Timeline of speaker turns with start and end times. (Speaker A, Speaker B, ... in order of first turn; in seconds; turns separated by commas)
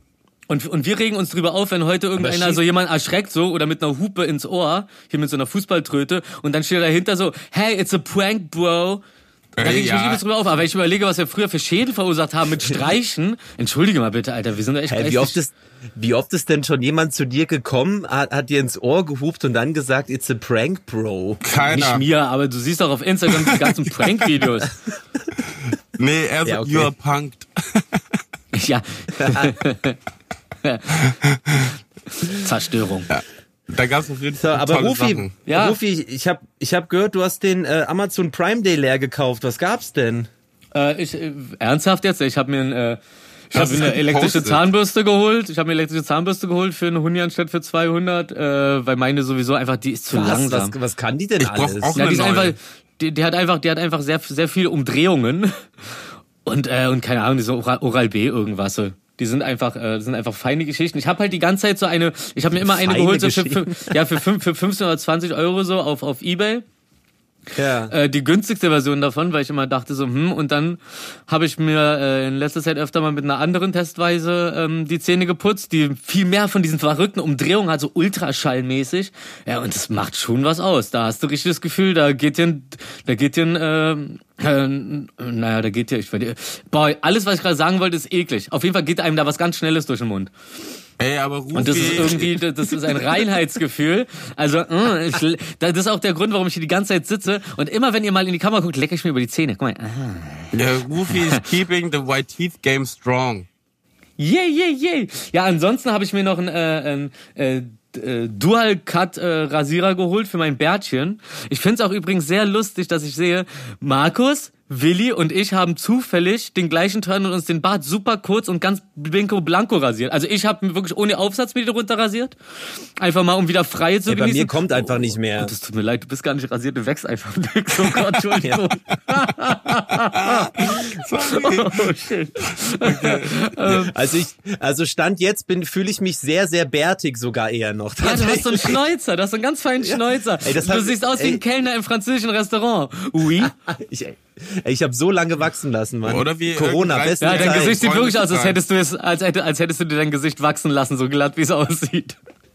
Speaker A: 0.5-9.0, Speaker B: 2.2-2.6, Speaker C: 9.6-10.2, Speaker A: 9.6-15.4, Speaker B: 14.9-21.4, Speaker C: 21.4-22.0, Speaker A: 21.6-24.8, Speaker C: 23.4-24.3, Speaker C: 26.0-28.2, Speaker B: 26.4-26.9, Speaker A: 28.5-30.0, Speaker B: 29.2-29.5, Speaker A: 30.6-33.1, Speaker C: 31.1-31.6, Speaker C: 33.1-35.3, Speaker B: 34.4-40.3, Speaker A: 35.5-35.8, Speaker A: 40.7-43.0, Speaker A: 43.5-50.7, Speaker C: 43.5-44.6, Speaker B: 50.1-52.0, Speaker C: 51.4-52.5, Speaker A: 52.0-66.6, Speaker B: 62.7-64.1, Speaker B: 67.5-67.9, Speaker A: 67.9-90.3, Speaker C: 91.0-93.1, Speaker A: 91.5-100.5, Speaker C: 100.5-103.5, Speaker A: 104.2-122.4, Speaker A: 123.0-133.9, Speaker B: 124.1-125.5, Speaker B: 128.4-128.7, Speaker C: 130.0-133.4, Speaker B: 133.7-138.8, Speaker A: 138.0-143.5, Speaker B: 139.8-141.4, Speaker B: 143.4-147.8, Speaker C: 146.1-148.6, Speaker A: 147.2-152.2